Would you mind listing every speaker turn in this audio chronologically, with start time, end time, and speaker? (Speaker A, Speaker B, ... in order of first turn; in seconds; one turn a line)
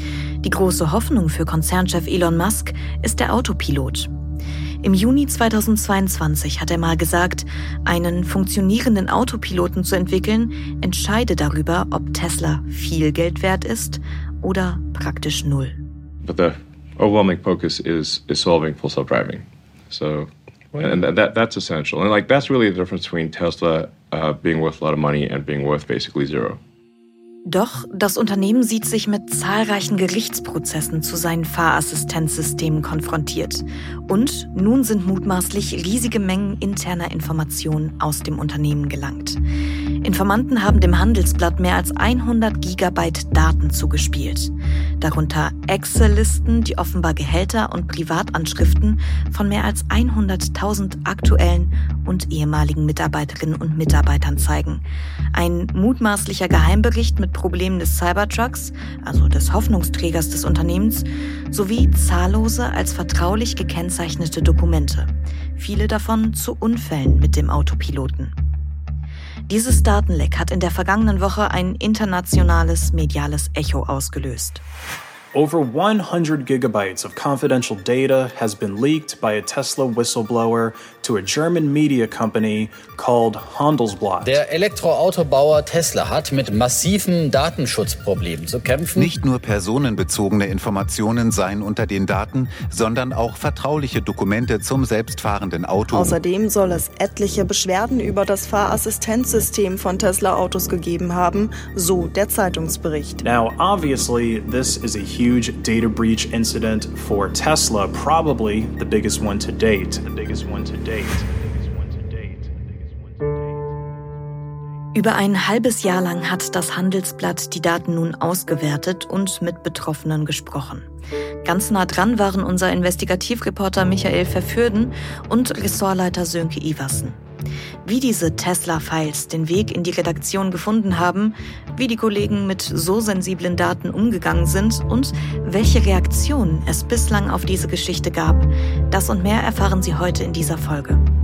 Speaker A: 0.4-4.1
Speaker A: 4.8-15.8
Speaker B: 16.2-26.6
Speaker A: 27.5-39.4
Speaker A: 40.0-68.3
Speaker A: 69.5-74.6
Speaker C: 75.3-84.3
Speaker D: 84.2-89.1
Speaker E: 88.9-96.2
Speaker F: 95.9-103.2
Speaker C: 103.2-113.4
Speaker A: 114.9-120.9
Speaker A: 121.4-127.2
Speaker A: 127.8-141.0